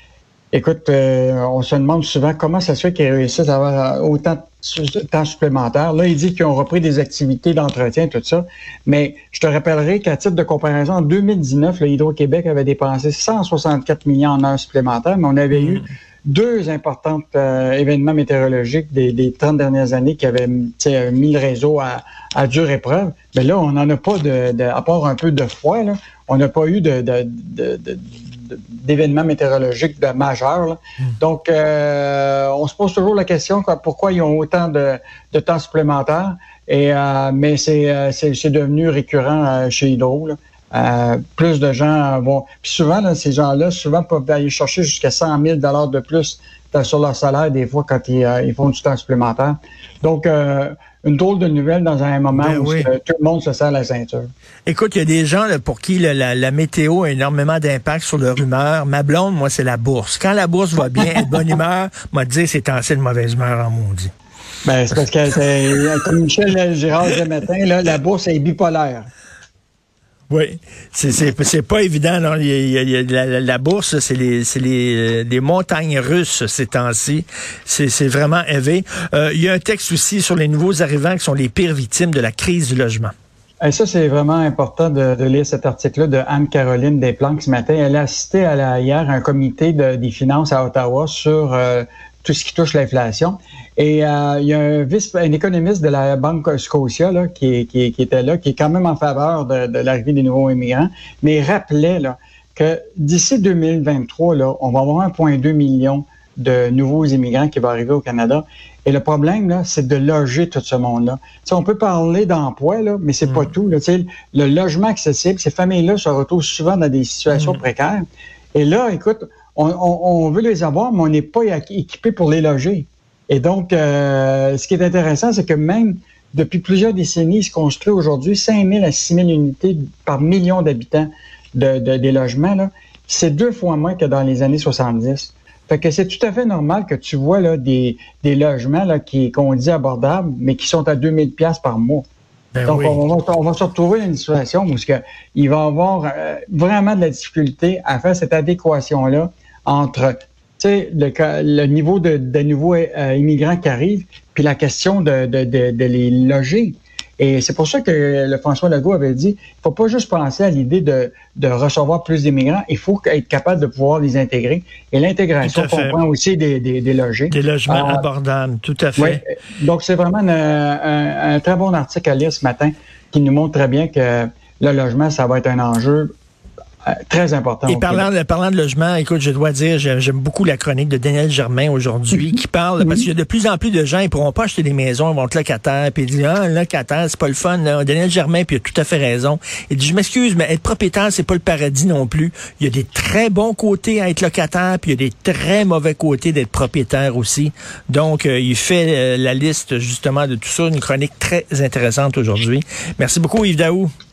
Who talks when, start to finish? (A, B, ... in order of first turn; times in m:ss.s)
0:00.5-0:54.3 A
0:15.5-0:15.9 B
0:52.3-0:52.9 B
0:54.6-1:04.1 B
1:04.6-1:09.1 A
1:10.3-1:23.1 B
1:23.6-2:22.0 A
1:53.2-1:53.5 B
1:57.3-1:57.6 B
2:22.5-2:23.0 B
2:22.7-2:48.0 A
2:45.4-2:46.0 B
2:47.3-2:49.2 B
2:49.0-2:56.1 A
2:56.9-2:58.1 A
2:57.7-3:23.9 B
3:02.1-3:03.0 A